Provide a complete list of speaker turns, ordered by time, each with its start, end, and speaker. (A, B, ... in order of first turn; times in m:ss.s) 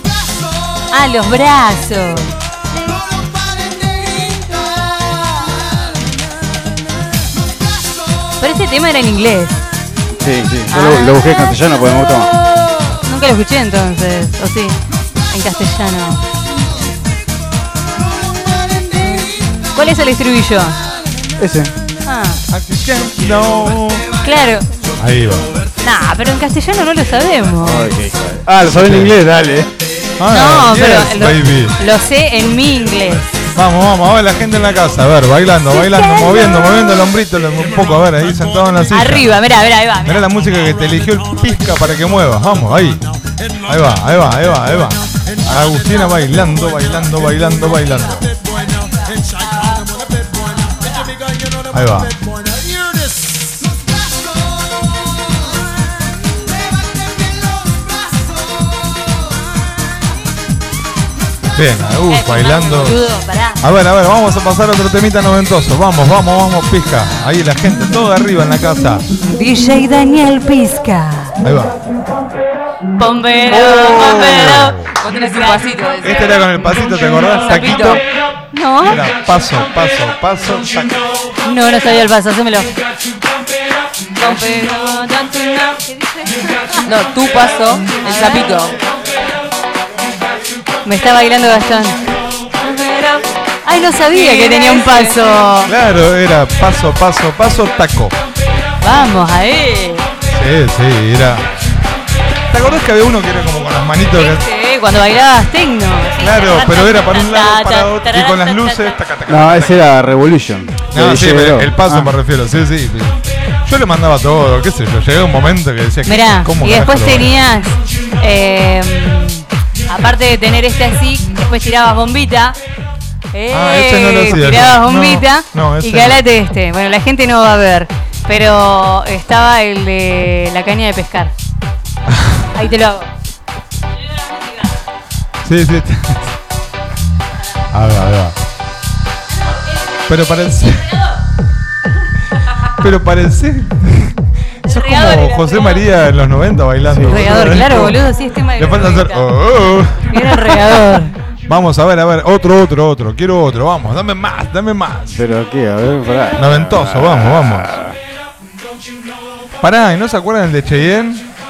0:00.9-0:02.3 A
0:08.4-0:09.6 A
0:10.2-0:12.3 B
0:10.7-0:11.5 A
0:12.8-0:16.2 A
0:19.7-0:20.8 A
0:21.4-0:21.7 B
0:22.0-0:22.4 A
0:22.5-0:24.1 C
0:24.2-0:24.7 A
0:25.0-0:25.6 C
0:25.8-0:27.9 A
0:27.6-0:29.7 B
0:28.7-0:29.1 C
0:30.2-0:31.7 C
0:30.3-0:33.3 A
0:33.5-0:39.4 C
0:35.7-0:36.7 A
0:38.9-0:40.3 A
0:40.0-0:43.0 C
0:43.6-0:48.3 C
0:45.1-0:45.5 D
0:48.3-0:53.3 D
0:51.7-0:52.2 C
1:01.5-1:03.0 C
1:02.1-1:03.6 A
1:03.6-1:09.0 C
1:09.3-1:11.4 A
1:11.4-1:11.8 C
1:13.0-1:15.6 A
1:13.6-1:18.0 E
1:13.8-1:14.9 C
1:16.0-1:18.0 C
1:18.5-1:19.0 A
1:18.8-1:21.0 C
1:21.4-1:22.7 A
1:24.2-1:26.8 A
1:26.8-1:28.8 E
1:27.9-1:28.7 A
1:30.8-1:32.0 A
1:32.6-1:35.7 A
1:34.1-1:35.3 E
1:35.6-1:38.2 C
1:38.8-1:40.1 A
1:40.3-1:41.5 C
1:42.5-1:44.5 C
1:44.1-1:49.0 A
1:46.2-1:49.9 C
1:49.3-1:52.1 B
1:50.9-1:57.4 C
1:56.0-2:02.6 A
2:03.3-2:11.3 A
2:03.5-2:06.2 C
2:12.1-2:12.4 C
2:12.5-2:13.1 A
2:14.2-2:14.6 A
2:15.4-2:16.4 C
2:17.7-2:18.4 C
2:20.1-2:21.0 C
2:22.7-2:30.9 C
2:24.6-2:25.9 A
2:26.9-2:27.6 B
2:27.1-2:29.3 A
2:30.0-2:31.1 A
2:31.5-2:35.2 C
2:35.1-2:38.0 B
2:36.4-2:37.8 C
2:39.6-2:41.2 C